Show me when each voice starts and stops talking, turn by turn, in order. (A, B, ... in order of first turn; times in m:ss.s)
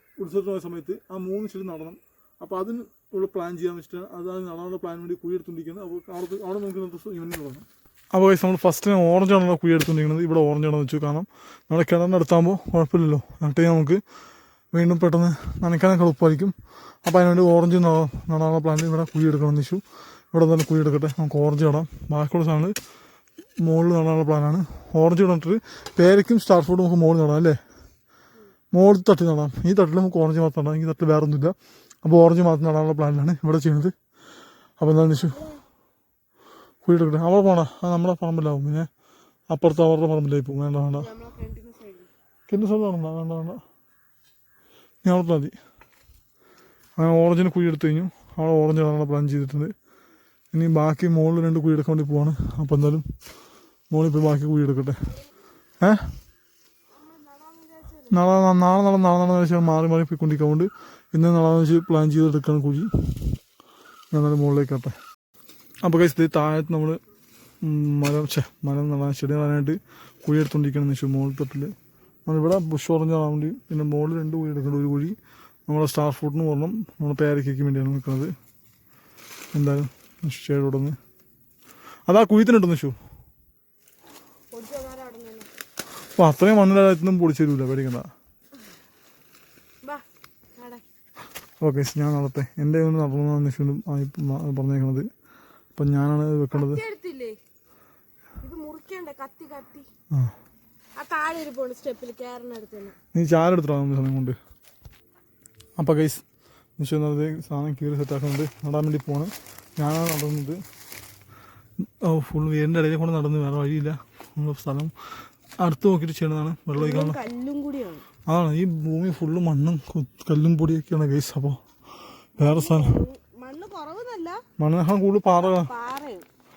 0:00.2-0:14.0 A
0:14.7-0:22.8 A
0:23.6-0:27.6 A
0:28.7-0:34.0 A
0:34.8-0:35.4 A
0:35.1-0:35.6 B
0:36.8-0:38.9 A
0:39.5-0:41.1 A
0:40.9-0:42.1 B
0:42.5-0:43.6 A
0:45.0-0:45.6 A
0:47.0-0:49.7 A
0:50.5-0:53.0 A
0:53.9-0:55.1 A
0:55.8-0:56.2 A
0:57.1-0:58.1 B
0:58.1-1:03.4 A
1:04.1-1:05.0 A
1:05.8-1:07.0 A
1:07.6-1:11.8 A
1:12.3-1:15.2 A
1:15.7-1:18.3 A
1:19.5-1:21.0 A
1:22.1-1:23.0 A
1:24.5-1:25.5 B
1:26.2-1:28.1 A
1:30.6-1:30.8 B
1:31.6-1:35.1 A
1:35.8-1:36.8 A
1:36.5-1:37.4 B
1:38.4-1:39.9 B
1:41.0-1:43.0 B
1:43.1-1:44.4 A
1:45.8-1:46.2 A
1:46.8-1:50.6 A
1:51.8-1:57.2 A
1:56.8-1:58.1 B
1:58.3-2:01.6 A
2:02.4-2:03.0 A
2:02.4-2:04.4 B
2:04.6-2:05.7 A
2:05.4-2:06.3 B